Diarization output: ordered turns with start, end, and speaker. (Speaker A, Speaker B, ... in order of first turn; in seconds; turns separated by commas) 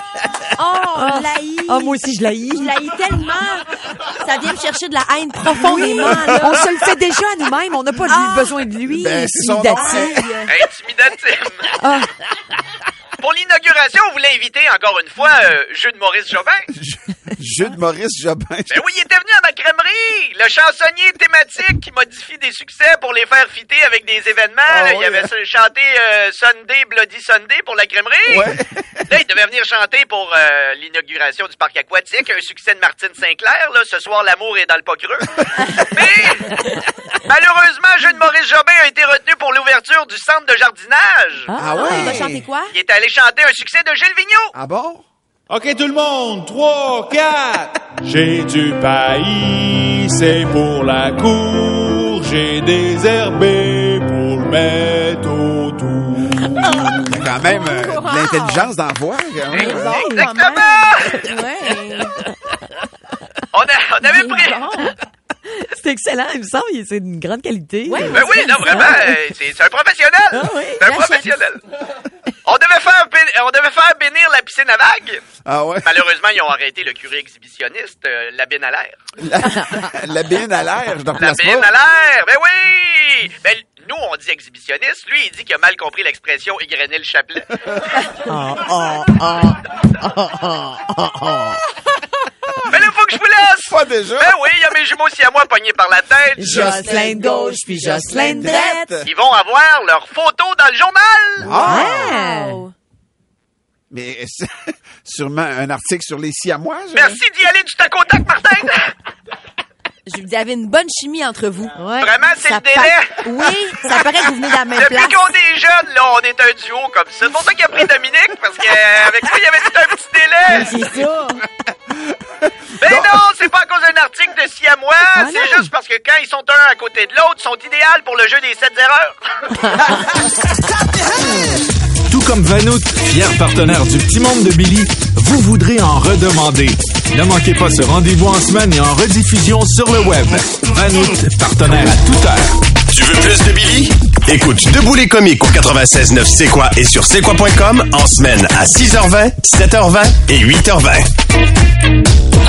Speaker A: 0.6-2.0, Speaker B: 0.9-2.8, Speaker A: 2.5-3.7, Speaker A: 4.2-6.7, Speaker B: 5.4-10.2, Speaker C: 6.1-6.5, Speaker A: 8.1-8.6, Speaker C: 8.9-10.3, Speaker A: 9.7-10.5, Speaker D: 10.5-11.7, Speaker B: 11.8-12.1, Speaker D: 13.2-16.7, Speaker C: 16.7-18.8, Speaker D: 18.7-28.5, Speaker C: 24.6-25.3, Speaker C: 28.2-29.1, Speaker D: 29.1-36.6, Speaker D: 37.2-41.5, Speaker A: 41.5-42.7, Speaker C: 41.5-42.4, Speaker B: 41.6-42.2, Speaker D: 42.7-44.5, Speaker C: 44.5-45.0, Speaker E: 45.5-57.1, Speaker C: 57.0-60.0, Speaker A: 57.6-58.7, Speaker A: 59.5-62.2, Speaker D: 59.5-61.4, Speaker B: 59.8-60.2, Speaker D: 63.5-64.9, Speaker A: 64.0-64.9, Speaker B: 65.5-69.2, Speaker A: 67.8-69.0, Speaker D: 68.1-71.6, Speaker B: 70.3-70.8, Speaker A: 70.8-71.3, Speaker D: 72.4-75.2, Speaker C: 75.4-75.9, Speaker D: 75.8-79.0, Speaker C: 79.2-81.7, Speaker D: 81.1-87.8, Speaker B: 88.2-91.6, Speaker D: 92.7-96.8, Speaker C: 93.6-94.4, Speaker B: 96.4-98.8, Speaker C: 96.4-96.9, Speaker A: 96.6-98.9, Speaker C: 98.2-99.1, Speaker D: 99.0-101.6, Speaker C: 101.4-102.1, Speaker B: 101.6-102.6, Speaker A: 101.6-102.7, Speaker C: 103.9-107.2, Speaker D: 106.9-108.9, Speaker A: 110.1-115.2, Speaker D: 112.0-113.2, Speaker D: 114.7-120.7, Speaker A: 120.5-121.4, Speaker C: 122.4-123.2, Speaker D: 122.8-129.1, Speaker B: 125.1-125.7, Speaker F: 132.1-142.5, Speaker G: 142.9-151.1